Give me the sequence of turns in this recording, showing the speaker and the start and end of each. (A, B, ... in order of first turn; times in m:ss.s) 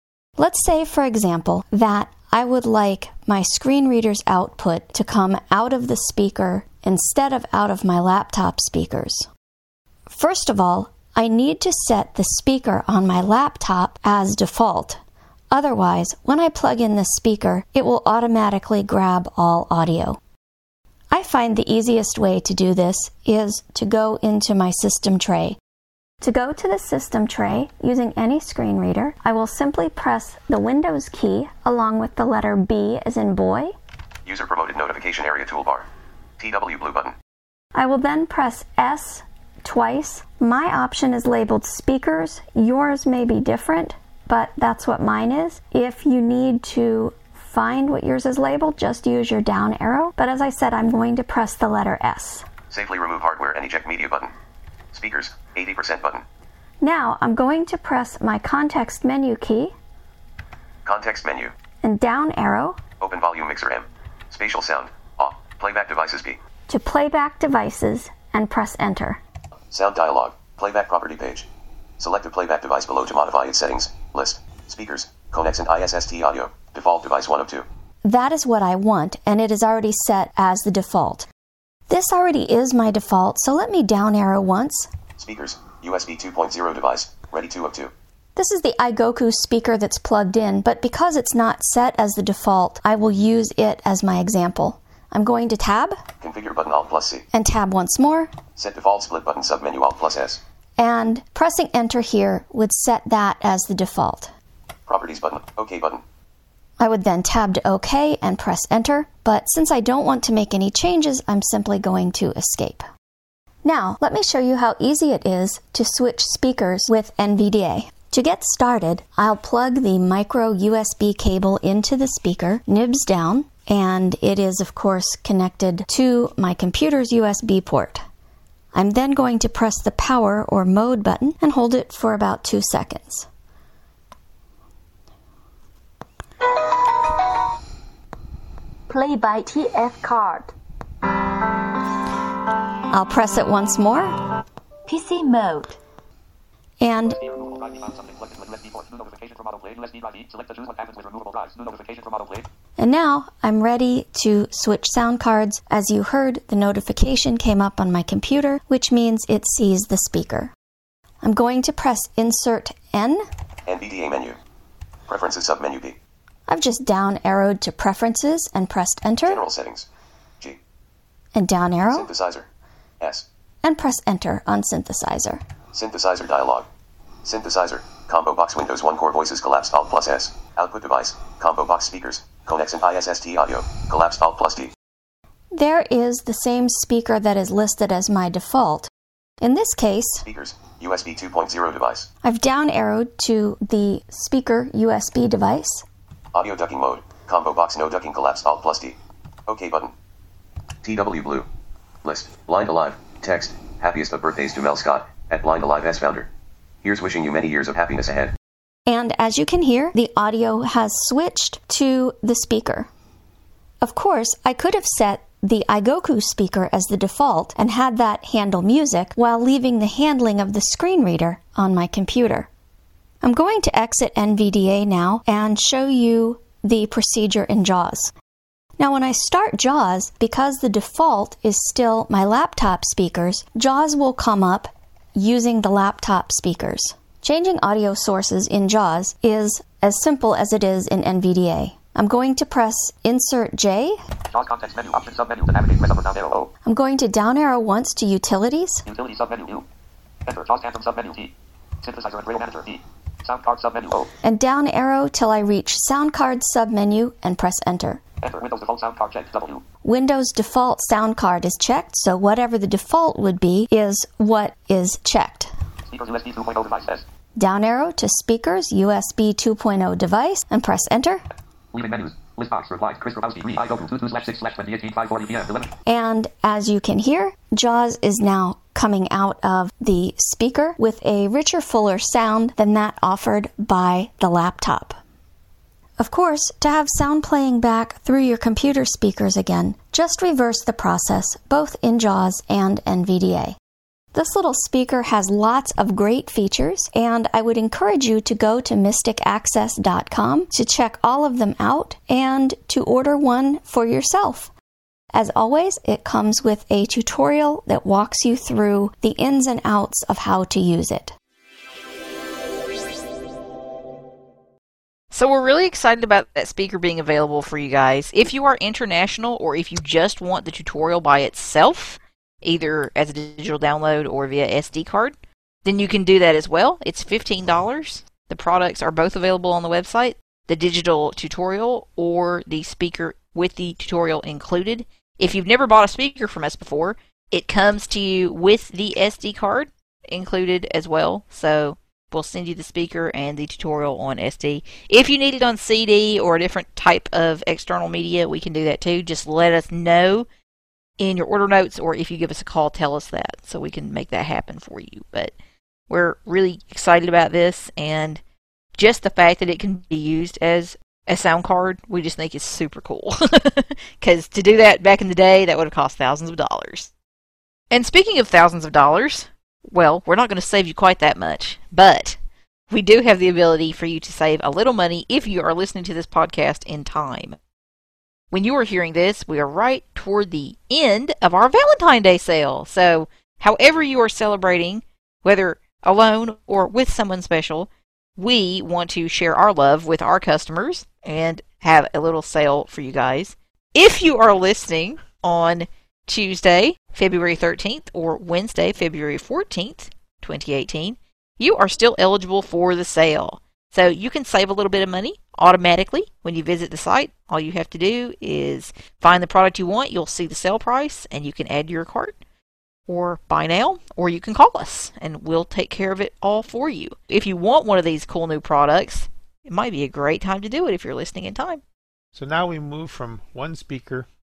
0:00.4-0:09.3 A
0:10.1-0:20.2 A
0:21.1-0:25.6 A
0:26.2-0:33.7 A
0:34.3-0:35.9 B
0:36.4-0:37.2 B
0:37.8-0:52.5 A
0:52.7-0:54.3 B
0:54.9-0:56.2 B
0:56.8-0:59.7 A
1:00.9-1:01.5 B
1:01.8-1:02.8 A
1:03.0-1:06.4 B
1:06.7-1:09.2 A
1:09.7-1:11.5 B
1:12.0-1:17.7 B
1:18.0-1:21.3 A
1:21.9-1:24.9 A
1:25.2-1:27.9 B
1:28.4-1:36.0 A
1:36.2-1:37.3 B
1:37.3-1:38.4 A
1:38.6-1:40.4 B
1:40.8-1:44.3 A
1:44.9-1:46.0 B
1:46.8-1:52.9 A
1:53.6-2:08.0 A
2:08.7-2:13.3 A
2:18.9-2:20.5 C
2:22.9-2:24.1 A
2:24.9-2:25.8 C
2:26.8-2:27.2 A
2:27.2-2:32.5 D
2:32.8-2:40.5 A
2:41.2-2:43.2 A
2:43.7-2:44.4 B
2:45.1-2:46.0 B
2:46.5-2:49.4 A
2:49.2-2:49.9 B
2:51.4-2:52.1 A
2:51.9-2:52.5 B
2:53.0-2:53.3 B
2:53.6-2:55.4 A
2:55.7-2:56.7 B
2:57.2-3:04.7 B
3:05.5-3:08.9 A
3:09.4-3:10.2 A
3:10.3-3:12.1 B
3:12.2-3:15.8 A
3:16.3-3:19.0 B
3:19.5-3:19.9 B
3:20.8-3:21.5 B
3:22.0-3:26.3 B
3:26.8-3:28.3 B
3:28.9-3:32.9 A
3:33.8-3:42.5 A
3:43.2-3:48.1 A
3:48.8-4:04.0 A
4:04.3-4:06.5 D
4:06.6-4:08.8 A
4:08.9-4:09.7 D
4:10.3-4:14.1 D
4:14.2-4:18.0 A
4:18.2-4:19.6 D
4:19.8-4:25.5 A
4:25.9-4:27.0 D
4:27.4-4:31.2 A
4:31.7-4:35.8 D
4:35.9-4:45.0 A
4:46.0-4:53.6 A
4:54.1-5:04.5 A
5:05.1-5:11.1 A
5:15.1-5:50.3 E
5:51.0-5:55.3 E
5:55.9-5:58.2 E
5:58.8-6:06.9 E
6:07.7-6:12.2 E
6:12.7-6:17.4 E
6:18.3-6:52.2 E
6:52.9-7:01.6 E
7:02.1-7:04.1 F